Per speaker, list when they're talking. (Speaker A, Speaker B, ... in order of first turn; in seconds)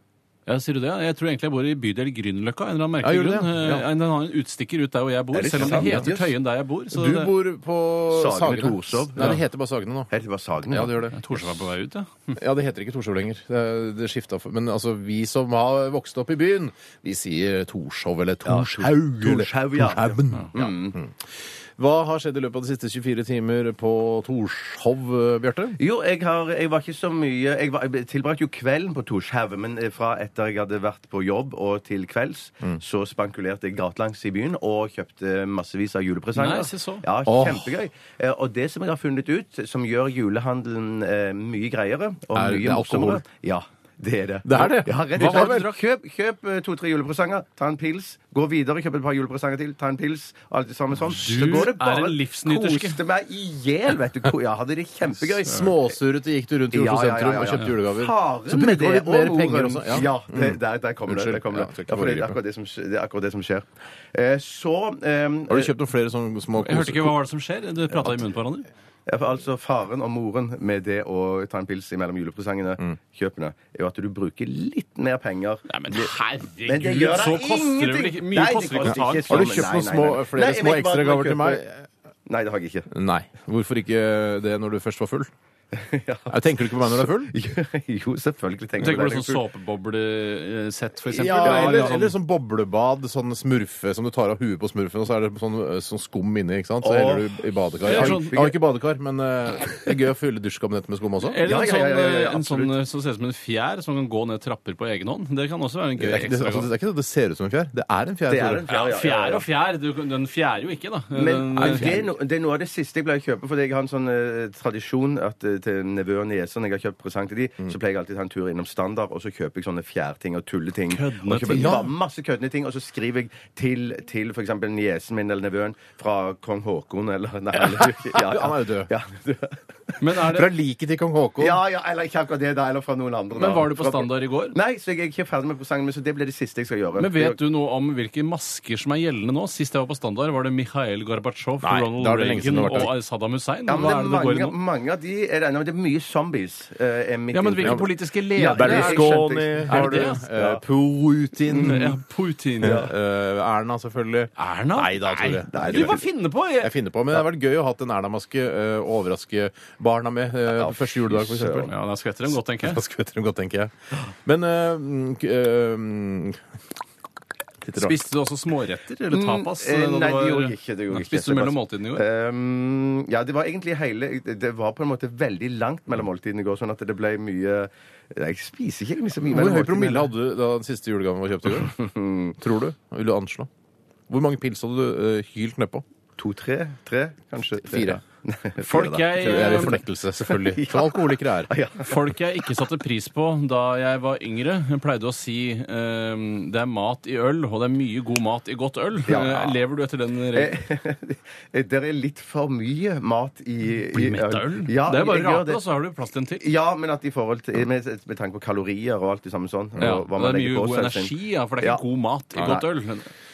Speaker A: 0.5-7.3, 11.1-12.3, 36.4-37.0, 45.1-45.7, 51.0-53.0, 66.6-68.7, 75.7-79.7, 88.8-92.1, 97.8-98.4, 101.2-106.7, 108.7-112.0, 120.9-121.8, 130.0-130.5, 133.3-134.6, 137.0-144.6, 147.3-150.2, 151.5-152.8, 154.4-156.7, 161.6-162.8, 167.8-172.0, 188.6-189.8, 191.8-200.6, 203.9-206.5, 209.8-213.1
Speaker B: 3.0-3.7, 5.5-6.1, 6.9-10.1, 10.7-11.4, 12.4-25.8, 37.2-37.7, 42.3-43.2, 44.4-45.7, 55.4-62.4, 65.5-67.2, 78.8-81.8, 82.9-85.3, 86.3-87.3, 91.1-101.4, 106.0-108.6, 111.5-112.1, 121.5-121.9, 127.7-128.9, 130.2-131.6, 141.6-142.9, 147.6-152.0, 152.6-156.0, 156.6-161.7, 162.6-166.4, 167.6-168.0, 179.2-181.8, 182.4-183.5, 184.1-185.8, 187.6-188.0, 189.1-191.5, 209.8-210.0, 212.3-212.6
Speaker C: 5.3-6.3, 8.1-9.4, 10.1-11.1, 18.4-21.0, 25.8-55.9, 56.7-65.7, 69.0-76.1, 76.7-81.6, 82.2-82.9, 85.7-89.4, 91.4-91.9, 96.8-98.5, 101.4-102.7, 108.3-109.4, 111.1-130.0, 131.4-137.4, 143.7-150.6, 151.5-151.9, 152.6-152.9, 155.5-156.0, 160.5-161.7, 169.1-180.1, 181.6-182.4, 186.2-192.0, 199.1-199.6, 200.3-205.6, 206.4-211.8, 212.4-212.6